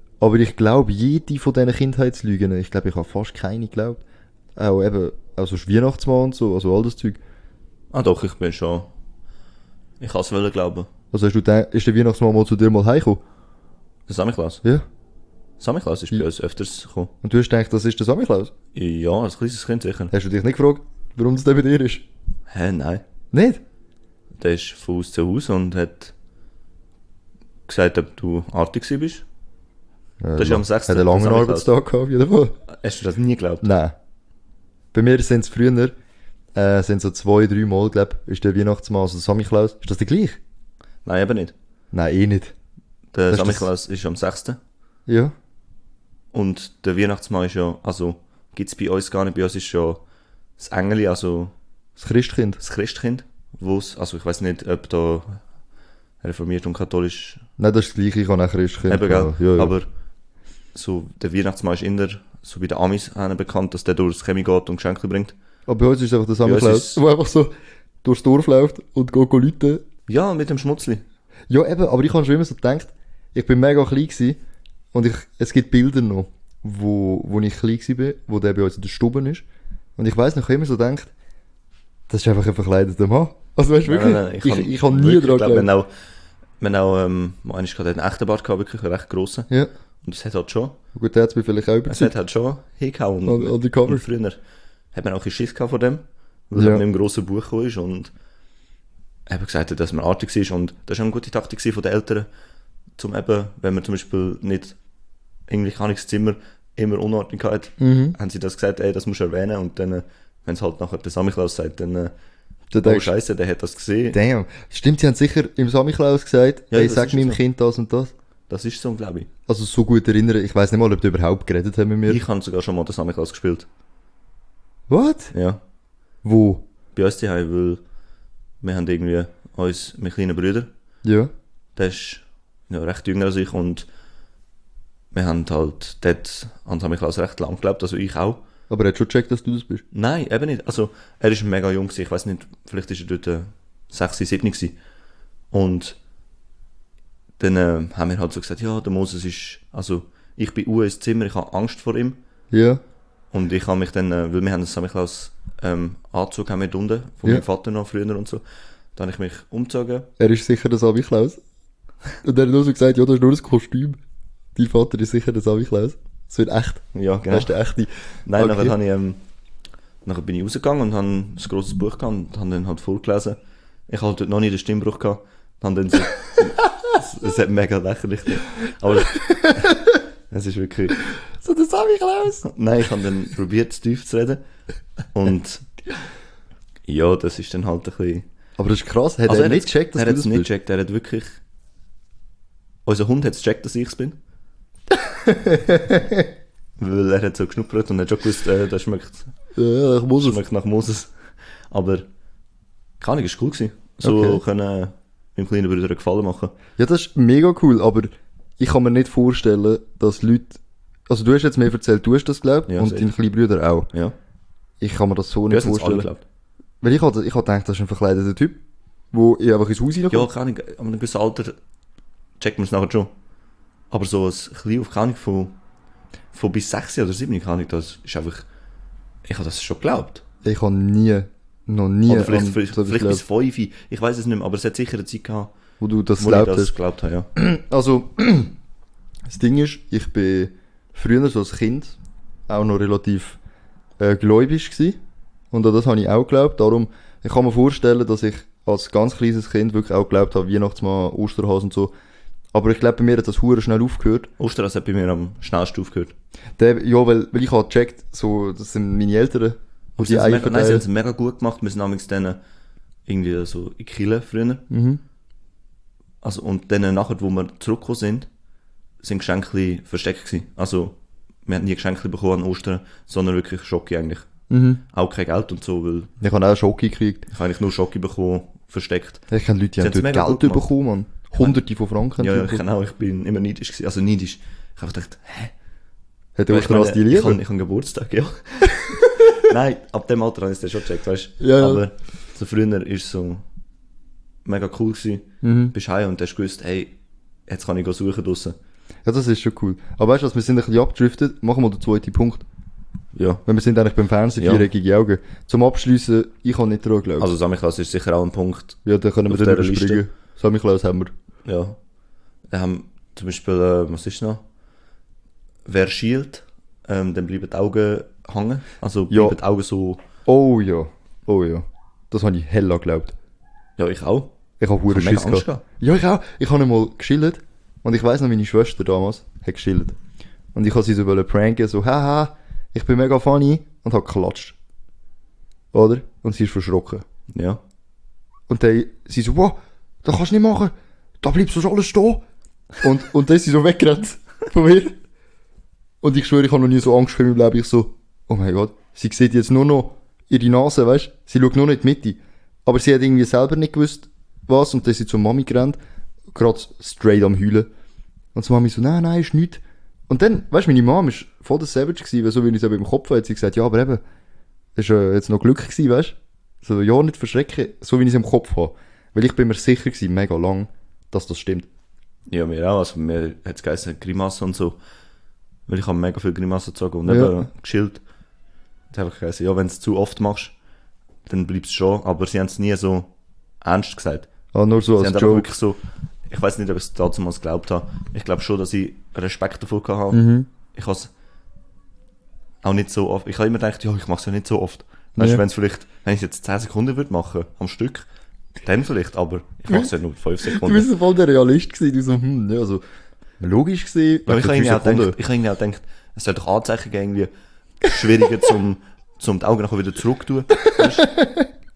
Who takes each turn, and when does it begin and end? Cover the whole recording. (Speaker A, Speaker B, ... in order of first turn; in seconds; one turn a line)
Speaker A: 0.2-4.0
Speaker A: 4.5-7.2
Speaker B: 7.9-8.9
Speaker B: 10.0-10.9
Speaker A: 11.1-13.2
Speaker B: 14.1-14.6
Speaker B: 15.6-17.1
Speaker A: 17.2-18.5
Speaker B: 18.7-20.1
Speaker A: 20.1-22.0
Speaker B: 22.5-23.0
Speaker A: 23.3-23.6
Speaker B: 24.4-26.1
Speaker B: 27.7-29.2
Speaker A: 30.2-32.6
Speaker B: 30.4-31.7
Speaker B: 32.7-33.7
Speaker A: 33.6-34.0
Speaker A: 34.9-35.9
Speaker A: 36.5-40.4
Speaker B: 41.0-41.5
Speaker A: 41.9-42.5
Speaker B: 43.1-44.6
Speaker A: 43.3-43.7
Speaker A: 45.1-45.3
Speaker B: 46.3-50.0
Speaker B: 50.6-51.5
Speaker A: 52.0-52.6
Speaker B: 52.6-55.4
Speaker B: 56.2-57.4
Speaker A: 57.6-59.7
Speaker B: 58.9-59.9
Speaker B: 60.7-65.3
Speaker A: 65.7-67.5
Speaker B: 66.4-67.0
Speaker A: 68.0-69.8
Speaker B: 70.1-71.0
Speaker A: 71.5-74.4
Speaker A: 74.9-79.4
Speaker A: 80.0-81.1
Speaker A: 82.1-85.7
Speaker B: 83.8-85.9
Speaker B: 86.6-89.5
Speaker B: 90.0-90.8
Speaker A: 90.9-92.1
Speaker B: 91.8-94.4
Speaker A: 93.2-94.0
Speaker B: 94.9-98.1
Speaker A: 96.5-96.8
Speaker B: 99.3-102.3
Speaker B: 103.0-104.8
Speaker B: 105.5-112.1
Speaker A: 107.8-108.2
Speaker A: 112.7-113.1
Speaker B: 112.8-114.2
Speaker A: 114.1-118.1
Speaker B: 116.7-117.4
Speaker B: 118.5-119.3
Speaker A: 119.5-122.2
Speaker B: 122.1-123.7
Speaker A: 124.9-125.3
Speaker B: 125.3-125.6
Speaker A: 126.2-126.6
Speaker B: 126.9-127.8
Speaker B: 128.6-130.7
Speaker A: 131.0-131.3
Speaker B: 131.8-133.8
Speaker B: 135.1-138.4
Speaker A: 138.7-139.8
Speaker B: 139.9-144.8
Speaker B: 145.5-145.9
Speaker B: 147.4-152.2
Speaker A: 152.5-152.8
Speaker B: 153.3-158.4
Speaker B: 158.9-160.1
Speaker A: 160.2-161.4
Speaker A: 162.2-164.0
Speaker A: 164.6-168.7
Speaker B: 166.9-167.5
Speaker B: 168.2-169.2
Speaker B: 170.0-179.8
Speaker A: 179.3-180.0
Speaker B: 180.3-181.0
Speaker A: 181.4-182.4
Speaker B: 182.4-184.4
Speaker B: 185.1-185.7
Speaker B: 186.9-188.2
Speaker A: 188.6-190.5
Speaker B: 189.3-191.4
Speaker B: 192.8-194.2
Speaker A: 195.1-196.3
Speaker B: 196.8-199.3
Speaker A: 199.5-200.4
Speaker B: 200.2-201.1
Speaker B: 201.7-202.1
Speaker B: 203.0-206.5
Speaker A: 204.0-204.4
Speaker A: 206.8-213.9
Speaker B: 212.7-213.1
Speaker A: 214.8-216.1
Speaker B: 215.5-216.2
Speaker A: 216.8-218.6
Speaker A: 219.1-220.3
Speaker B: 220.1-221.5
Speaker B: 222.4-223.1
Speaker B: 223.9-225.6
Speaker B: 226.3-228.4
Speaker B: 229.2-230.2
Speaker A: 230.4-233.2
Speaker B: 232.1-235.5
Speaker A: 235.8-236.7
Speaker B: 236.2-237.3
Speaker A: 237.3-238.5
Speaker A: 239.3-243.4
Speaker A: 244.0-245.0
Speaker A: 245.5-251.9
Speaker A: 252.5-254.3
Speaker B: 254.4-256.1
Speaker A: 256.6-260.8
Speaker B: 260.0-262.4
Speaker B: 263.1-264.6
Speaker A: 264.7-265.0
Speaker B: 266.2-268.3
Speaker B: 269.0-274.3
Speaker A: 274.5-274.8
Speaker B: 274.9-276.1
Speaker A: 276.2-277.2
Speaker B: 277.3-279.2
Speaker A: 279.3-282.6
Speaker B: 279.8-280.7
Speaker B: 282.2-285.5
Speaker A: 286.4-287.4
Speaker B: 286.5-293.4
Speaker A: 291.4-291.8
Speaker B: 294.4-296.9
Speaker A: 295.4-295.7
Speaker B: 297.5-298.6
Speaker A: 299.0-302.4
Speaker B: 303.1-303.4
Speaker A: 303.4-307.3
Speaker B: 304.4-304.7
Speaker B: 307.2-310.0
Speaker A: 308.8-311.1
Speaker B: 311.4-311.8
Speaker B: 312.5-314.4
Speaker B: 315.6-320.0
Speaker A: 319.1-319.4
Speaker A: 320.2-323.1
Speaker B: 323.8-324.3
Speaker A: 324.6-329.9
Speaker B: 324.9-325.6
Speaker A: 330.5-334.6
Speaker A: 335.7-337.0
Speaker B: 337.3-337.6
Speaker A: 338.5-342.2
Speaker A: 342.8-344.9
Speaker A: 346.0-355.8
Speaker A: 356.3-357.7
Speaker A: 358.3-364.0
Speaker A: 364.8-371.7
Speaker B: 372.3-374.8
Speaker B: 375.7-378.0
Speaker A: 377.1-377.4
Speaker B: 378.9-380.5
Speaker B: 381.2-383.1
Speaker B: 383.6-384.3
Speaker A: 384.5-385.5
Speaker B: 385.0-391.1
Speaker A: 390.1-390.5
Speaker B: 392.6-398.0
Speaker A: 395.2-395.4
Speaker B: 398.6-400.9
Speaker A: 400.4-402.8
Speaker A: 403.4-405.2
Speaker B: 404.3-407.3
Speaker B: 407.8-411.1
Speaker A: 411.0-411.4